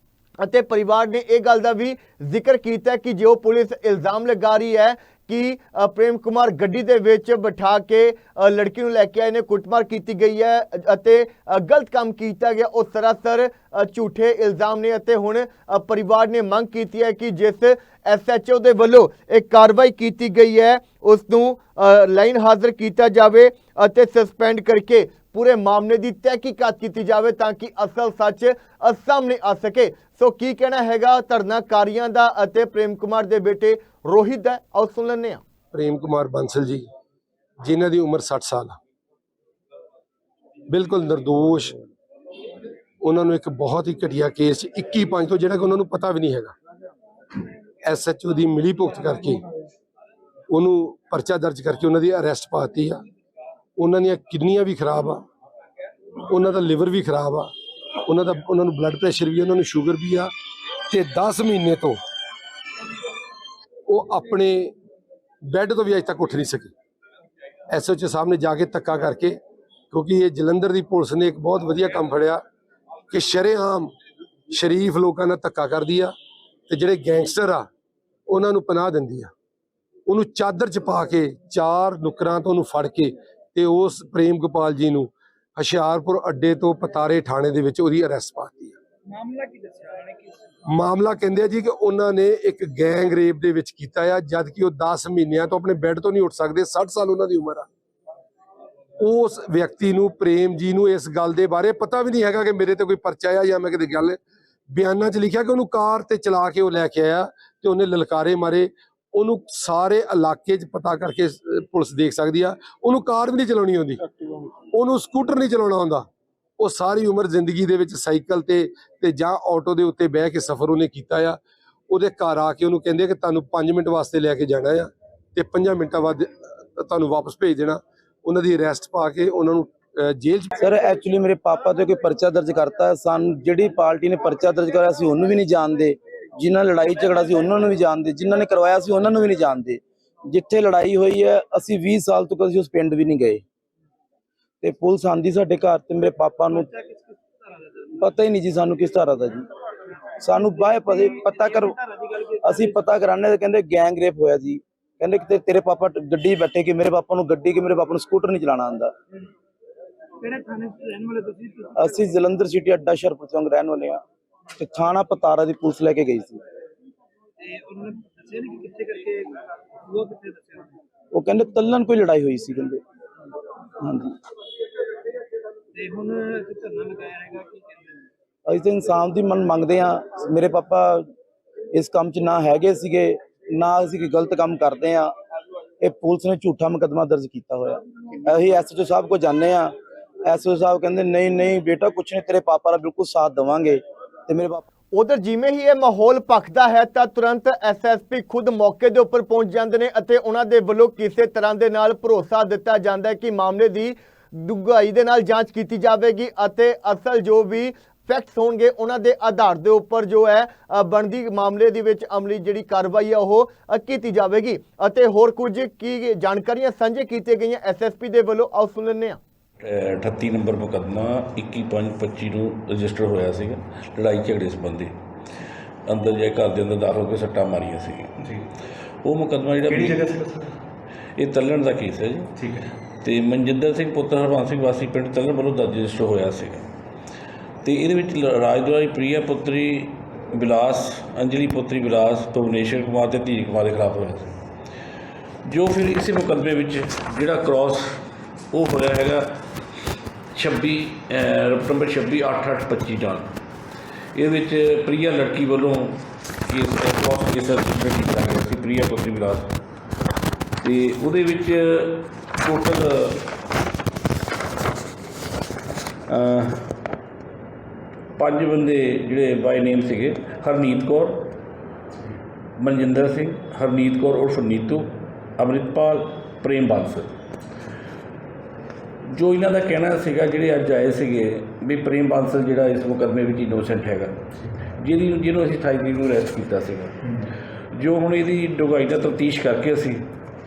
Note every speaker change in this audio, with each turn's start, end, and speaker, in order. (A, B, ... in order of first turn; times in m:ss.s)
0:00.4-0:35.4 A
0:35.7-0:36.9 B
0:37.6-0:38.8 B
0:40.7-0:41.8 B
0:43.0-0:46.5 B
0:47.8-0:49.4 B
0:50.5-0:53.0 B
0:53.8-0:55.2 B
0:56.3-0:57.5 B
0:58.1-1:00.3 B
1:00.9-1:02.0 B
1:03.9-1:04.7 B
1:05.5-1:06.7 B
1:07.7-1:09.4 B
1:09.9-1:12.4 B
1:13.1-1:13.9 B
1:14.5-1:16.1 B
1:16.7-1:17.7 B
1:18.3-1:19.3 B
1:20.1-1:28.8 B
1:29.1-1:30.3 C
1:30.7-1:37.7 B
1:39.0-1:44.2 B
1:44.7-1:54.0 B
1:54.7-1:56.1 B
1:56.6-2:01.4 B
2:01.9-2:10.6 B
2:10.6-2:23.4 D
2:24.6-2:26.7 D
2:26.5-2:27.7 C
2:28.0-2:29.5 D
2:30.2-2:31.8 D
2:30.7-2:32.8 C
2:32.4-2:38.9 D
2:40.2-2:42.0 C
2:41.8-2:44.0 D
2:44.6-2:46.4 D
2:47.4-2:50.8 C
2:51.1-2:52.8 D
2:53.8-2:54.2 D
2:55.8-2:58.0 C
2:58.5-3:01.1 D
3:01.7-3:05.1 D
3:05.8-3:14.6 D
3:14.9-3:39.2 A
3:39.6-3:45.0 E
3:45.9-3:48.4 E
3:49.0-3:50.3 E
3:51.2-3:56.6 E
3:57.6-4:04.4 E
4:05.5-4:09.4 E
4:10.4-4:13.3 E
4:14.2-4:19.5 E
4:20.6-4:23.3 E
4:26.1-4:26.7 E
4:28.2-4:31.3 E
4:32.6-4:37.1 E
4:39.1-4:44.2 E
4:44.8-4:50.0 E